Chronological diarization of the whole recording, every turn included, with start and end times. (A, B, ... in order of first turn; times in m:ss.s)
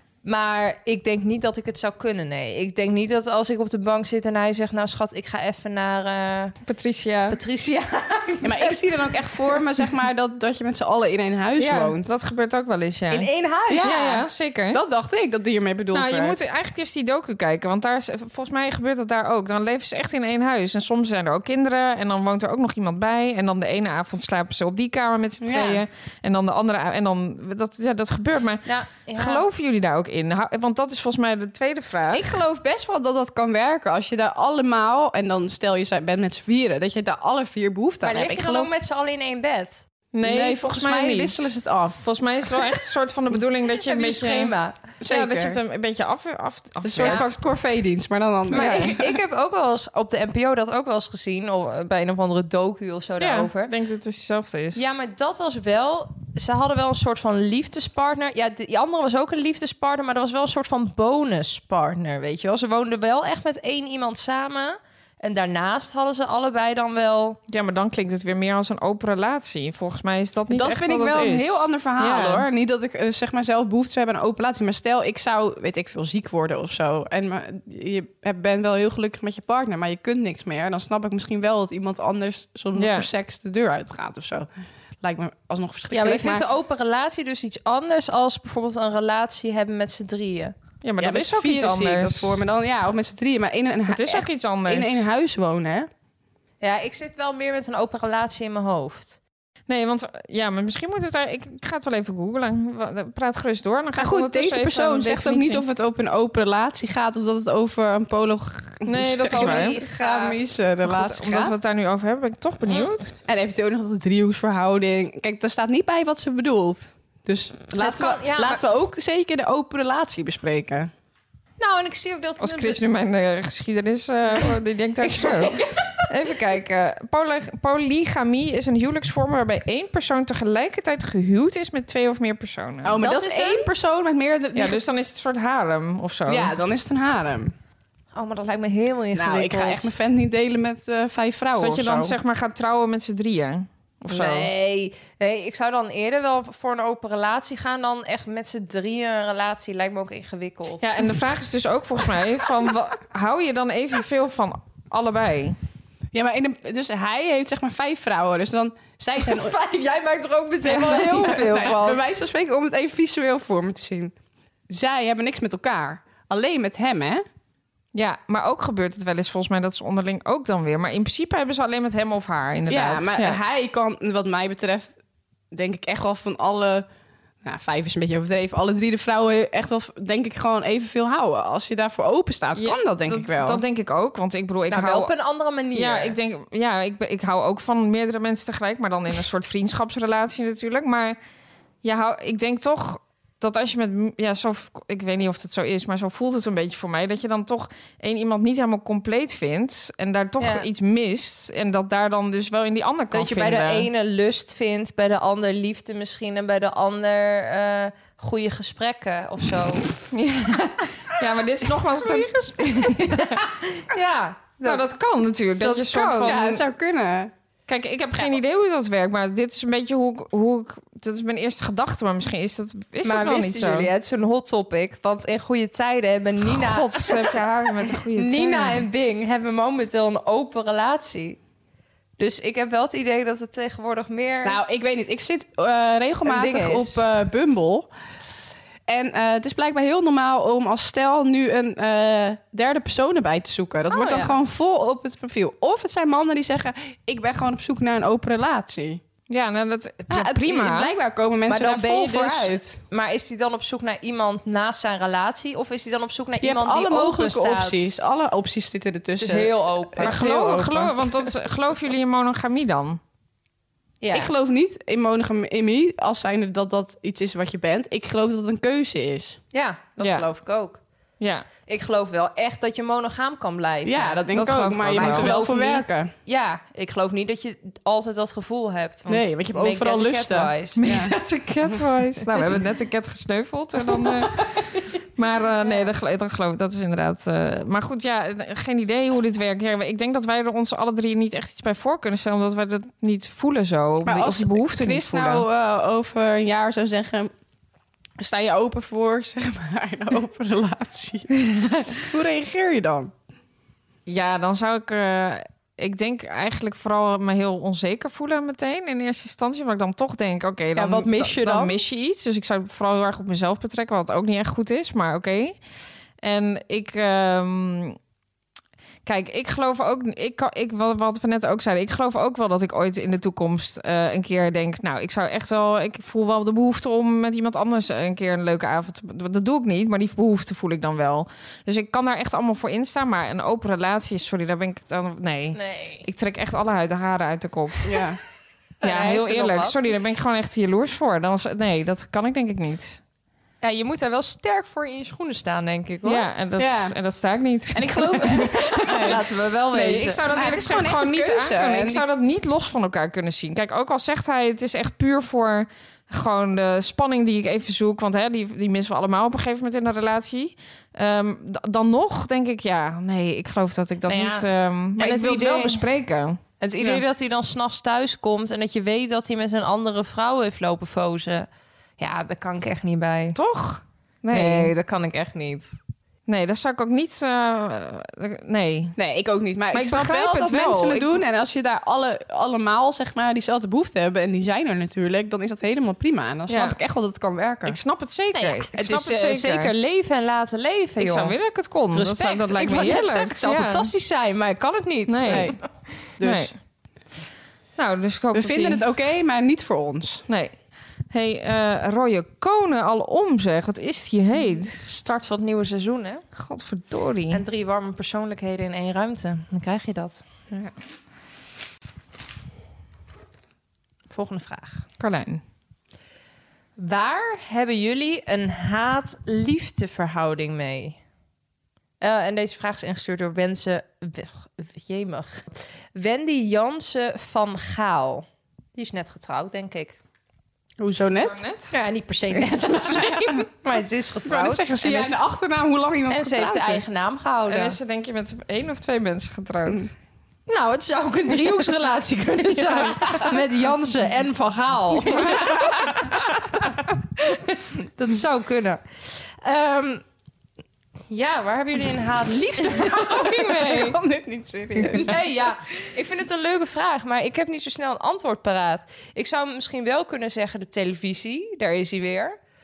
0:00.2-0:06.6 A
0:06.6-0:07.4 B
0:07.3-0:08.9 A
0:08.4-0:12.1 C
0:11.6-0:13.3 B
0:13.1-0:14.0 A
0:13.7-0:16.4 C
0:13.8-0:14.8 B
0:15.9-0:32.4 B
0:25.4-0:25.8 C
0:28.6-0:29.4 A
0:32.1-0:38.7 C
0:38.0-0:39.8 A
0:40.1-0:44.5 B
0:40.2-0:42.0 C
0:43.8-0:44.8 A
0:45.0-0:45.6 C
0:45.1-0:47.4 B
0:46.8-0:49.2 C
0:48.5-0:48.9 B
0:48.5-0:53.7 A
0:53.2-0:54.8 B
0:54.8-1:07.4 A
1:07.5-1:12.5 B
1:10.5-1:24.5 C
1:22.8-1:23.1 B
1:25.0-1:26.4 C
1:25.9-1:30.6 A
1:30.8-1:32.4 B
1:31.0-1:35.9 C
1:33.9-1:35.1 B
1:36.6-1:39.2 A
1:39.7-1:45.6 B
1:44.0-1:51.6 C
1:48.8-1:49.8 B
1:49.3-1:50.4 A
1:50.8-1:53.2 B
1:53.3-2:00.9 C
1:57.8-1:58.6 A
2:01.6-2:02.8 A
2:02.4-2:13.0 B
2:05.0-2:06.1 A
2:12.8-2:14.8 C
2:13.0-2:13.7 A
2:14.6-2:16.5 B
2:16.3-2:17.5 C
2:18.1-2:19.9 A
2:19.2-2:22.2 C
2:21.6-2:24.5 B
2:24.1-2:31.0 A
2:30.8-2:35.6 B
2:36.1-2:39.6 C
2:39.2-2:42.0 A
2:40.6-2:41.4 B
2:40.7-2:44.1 C
2:44.7-2:47.2 C
2:47.9-2:53.4 B
2:52.7-2:55.0 C
2:55.5-2:56.9 C
2:57.4-3:03.6 C
3:02.6-3:05.1 B
3:04.7-3:06.2 A
3:05.7-3:11.2 B
3:11.8-3:23.9 B
3:20.4-3:20.7 A
3:23.1-3:29.9 A
3:30.1-3:33.4 B
3:33.2-3:34.9 A
3:34.6-3:36.6 B
3:35.6-3:36.3 A
3:35.9-3:37.3 C
3:37.7-3:43.9 B
3:43.0-3:47.4 A
3:46.4-3:48.9 B
3:48.1-3:51.4 A
3:52.2-3:54.6 A
3:54.4-3:57.9 C
3:56.3-3:57.1 A
3:58.9-4:09.0 C
4:03.9-4:04.4 A
4:09.3-4:11.0 B
4:10.1-4:12.8 C
4:11.5-4:18.0 A
4:16.4-4:21.2 C
4:19.2-4:20.2 A
4:20.0-4:23.0 B
4:24.0-4:24.3 A
4:24.1-4:29.4 C
4:29.5-4:30.8 A
4:30.0-4:30.3 B
4:31.2-4:31.5 B
4:31.7-4:34.2 A
4:33.8-4:36.1 C
4:34.3-4:35.4 B
4:34.9-4:40.8 A
4:39.1-4:41.2 C
4:40.8-4:44.4 B
4:45.2-4:55.4 B
4:54.1-4:57.3 C
4:58.2-5:03.1 C
5:04.1-5:15.6 B
5:10.8-5:11.8 A
5:16.2-5:18.0 B
5:19.0-5:38.0 B
5:35.6-5:36.1 A
5:37.8-5:38.2 C
5:38.8-5:39.8 A
5:38.8-5:43.0 B
5:43.6-5:46.2 A
5:46.0-5:49.2 B
5:46.6-5:47.0 C
5:47.7-5:52.0 C
5:48.9-5:50.2 A
5:49.8-6:07.0 B
6:04.1-6:04.5 A
6:05.0-6:05.8 A
6:06.6-6:11.5 A
6:12.0-6:13.4 A
6:13.4-6:14.7 B
6:14.3-6:15.8 A
6:16.3-6:19.0 B
6:19.0-6:27.8 C
6:19.7-6:21.2 B
6:26.5-6:26.8 B
6:27.7-6:29.7 B
6:28.3-6:31.3 A
6:31.0-6:33.9 B
6:31.9-6:35.7 A
6:35.1-6:35.6 B
6:35.3-6:35.6 C
6:36.2-6:36.5 C
6:36.2-6:36.5 B
6:37.8-6:38.8 B
6:38.3-6:40.3 C
6:40.3-6:40.6 B
6:41.1-6:44.8 B
6:44.7-6:46.2 A
6:46.4-6:47.4 B
6:47.3-6:50.2 A
6:54.1-6:54.8 A
6:55.0-6:55.4 B
6:56.8-7:01.0 A
7:02.0-7:10.0 A
7:10.8-7:11.4 C
7:11.2-7:11.7 B
7:11.7-7:15.2 A
7:12.9-7:13.4 C
7:14.3-7:16.8 C
7:16.1-7:17.8 A
7:17.5-7:19.9 B
7:20.5-7:26.2 A
7:25.1-7:25.6 C
7:25.2-7:25.7 B
7:27.3-7:30.0 A
7:31.1-7:34.0 A
7:32.8-7:35.2 C
7:35.0-7:42.4 A